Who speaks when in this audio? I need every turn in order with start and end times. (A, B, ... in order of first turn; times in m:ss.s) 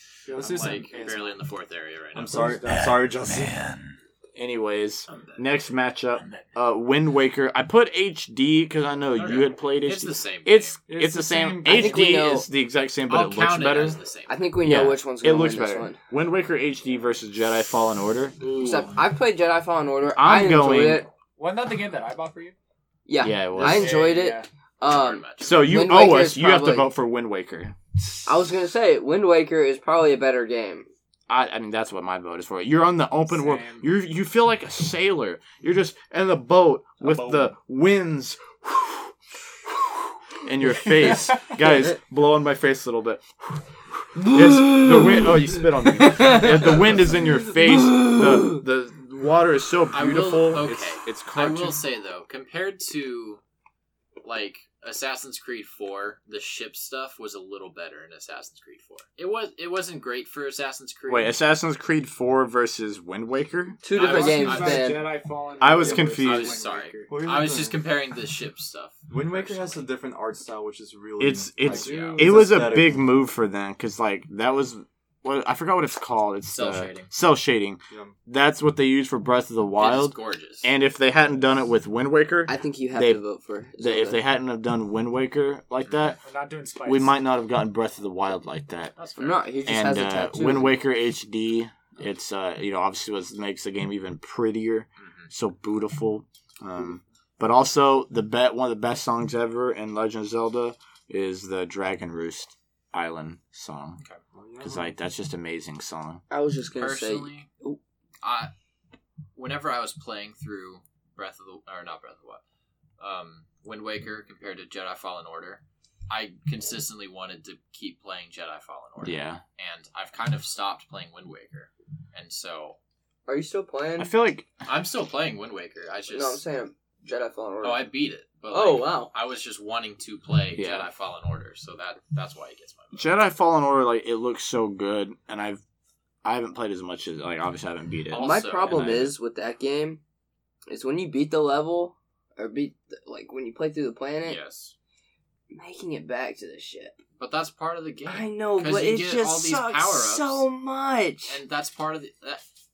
0:00.3-0:01.4 A
0:00.3-0:01.0 B
0:00.4-0:02.6 C
0:02.2-0:03.7 B
0:02.4-0:14.0 D
0:05.1-0:05.4 C
0:09.2-0:10.8 C
0:10.9-0:12.2 A
0:11.6-0:12.5 E
0:13.1-0:14.5 C
0:14.3-0:16.0 E
0:14.6-0:18.4 D
0:18.6-0:21.1 E
0:20.1-0:21.1 D
0:21.4-0:22.6 A
0:23.1-0:26.9 E
0:23.2-0:24.1 D
0:23.6-0:24.5 A
0:24.8-0:25.5 C
0:25.4-0:27.8 D
0:28.2-0:30.9 E
0:31.3-0:39.1 D
0:33.3-0:33.9 A
0:37.0-0:37.5 B
0:40.4-0:51.8 D
0:48.1-0:48.5 E
0:49.9-0:53.4 C
0:54.2-1:01.4 C
1:01.1-1:03.8 D
1:03.8-1:05.1 E
1:03.9-1:05.1 C
1:04.0-1:07.1 A
1:05.6-1:06.6 D
1:05.7-1:06.3 B
1:06.2-1:09.9 C
1:07.1-1:07.9 B
1:09.1-1:13.1 B
1:11.2-1:23.2 D
1:11.6-1:12.3 C
1:12.0-1:12.3 A
1:16.5-1:17.1 C
1:17.9-1:18.2 B
1:19.8-1:20.7 C
1:22.5-1:24.2 E
1:23.8-1:26.2 D
1:26.2-1:27.2 A
1:26.8-1:29.0 D
1:29.0-1:29.4 C
1:29.2-1:30.8 E
1:29.6-1:44.0 D
1:35.0-1:35.3 C
1:44.3-1:44.9 B
1:44.6-1:46.2 D
1:46.3-1:47.8 E
1:46.8-1:47.5 C
1:48.2-1:48.5 C
1:49.4-1:52.4 C
1:53.0-2:02.8 C
1:59.0-1:59.4 D
2:03.3-2:04.1 E
2:04.0-2:04.5 D
2:04.6-2:06.4 C
2:06.1-2:07.9 E
2:07.6-2:13.1 C
2:08.5-2:09.1 E
2:10.6-2:10.9 D
2:12.9-2:15.6 D
2:16.2-2:19.1 D
2:18.1-2:19.0 C
2:18.2-2:20.0 E
2:20.7-2:24.4 E
2:24.2-2:24.7 C
2:25.5-2:27.0 E
2:27.2-2:30.5 C
2:28.1-2:31.4 E
2:31.3-2:32.4 C